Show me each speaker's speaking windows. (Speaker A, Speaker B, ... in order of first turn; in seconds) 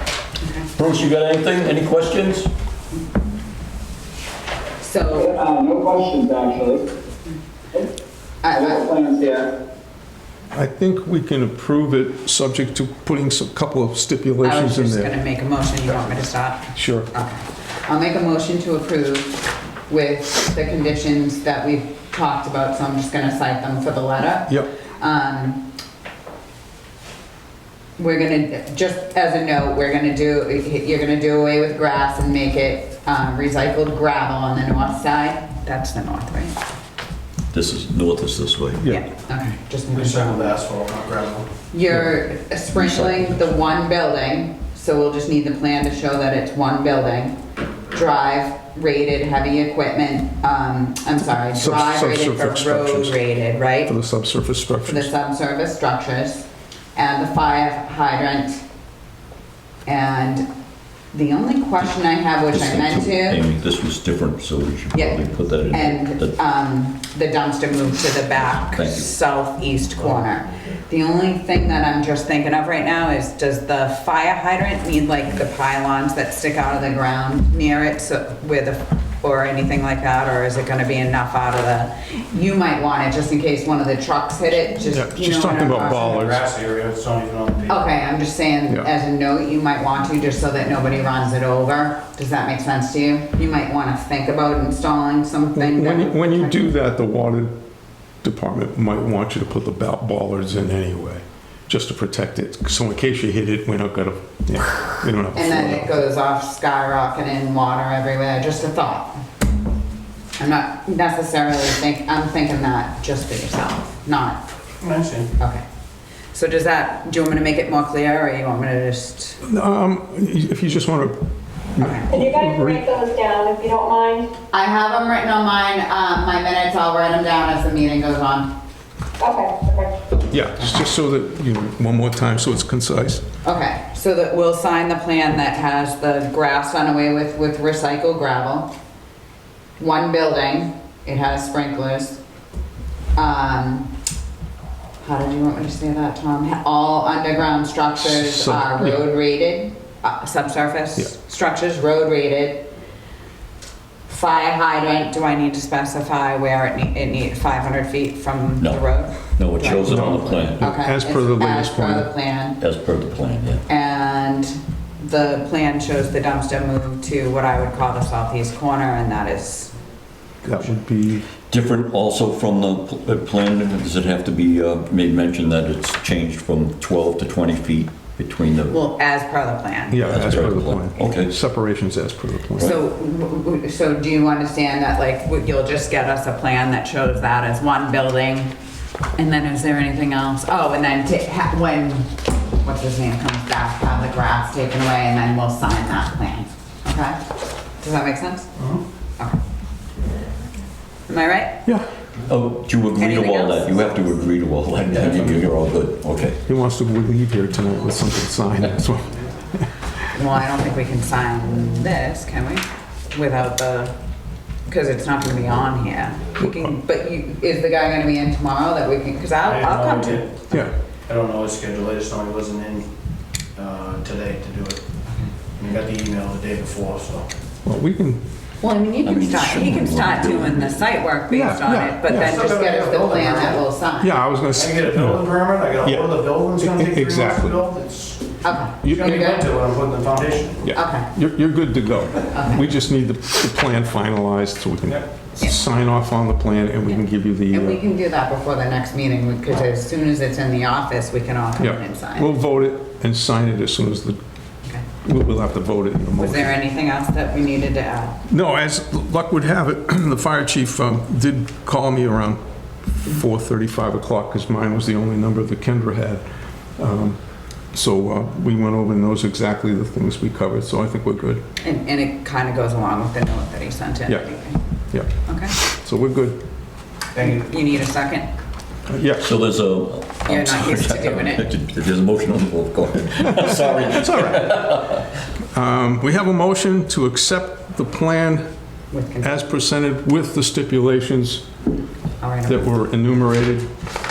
Speaker A: 0.4-0.7, 4.8-5.3, 8.4-8.8, 14.4-25.6, 28.0-36.5, 38.9-40.6, 41.7-47.4, 47.9-53.9, 54.8-58.6, 59.9-60.5, 61.1-63.4, 64.9-86.3, 87.7-96.7, 105.3-109.1, 110.4-114.4, 116.3-119.4, 121.8-122.1, 124.5-128.5, 133.4-138.7, 139.8-142.2, 143.2-143.9, 145.0-152.7, 154.1-162.6, 163.7-169.7, 178.7-180.2, 182.6-188.5, 189.2-197.2, 197.8-198.5, 201.1-201.6, 203.0-203.9, 210.1-213.9, 214.7-220.7, 228.6-234.2, 238.4-239.5, 240.7-241.1, 242.3-242.7, 247.5-252.3, 256.2-258.2, 271.6-274.6, 275.2-275.6, 277.2-278.3, 280.2-281.5, 288.9-289.4, 292.2-292.7
Speaker B: 0.8-2.5, 37.5-38.8, 42.7-43.5, 62.5-66.4, 68.8-69.1, 158.6-160.6, 162.6-163.6, 171.5-178.8, 180.0-181.3, 202.3-206.4, 229.0-230.8, 279.2-285.0
Speaker C: 5.1-6.9, 8.5-9.5
Speaker D: 10.5-15.1, 16.8-17.1, 38.8-39.0, 51.3-53.2, 53.9-55.1, 84.8-86.4, 95.6-97.5, 98.2-106.0, 119.4-121.2, 121.8-122.8, 130.3-133.2, 148.0-149.0, 159.8-162.1, 170.4-171.3, 179.9-182.8, 206.5-209.6, 216.4-216.7, 227.7-228.2, 231.3-232.3, 234.0-235.2, 235.8-237.6, 238.8-239.2, 240.6-247.8, 251.6-254.2, 255.0-256.5, 258.3-262.4, 262.9-266.2, 266.8-267.2, 267.7-271.4, 274.9-276.4, 278.9-279.3, 283.2-284.8, 285.5-288.4, 289.2-291.4, 292.5-293.7
Speaker E: 39.9-41.5, 86.0-87.8, 114.8-115.3, 198.6-198.8, 219.4-220.4, 221.1-222.9, 223.6-224.8, 225.6-227.3, 232.1-233.6, 234.5-238.4, 238.9-240.7, 277.2-277.4
Speaker F: 122.1-124.3, 129.2-130.0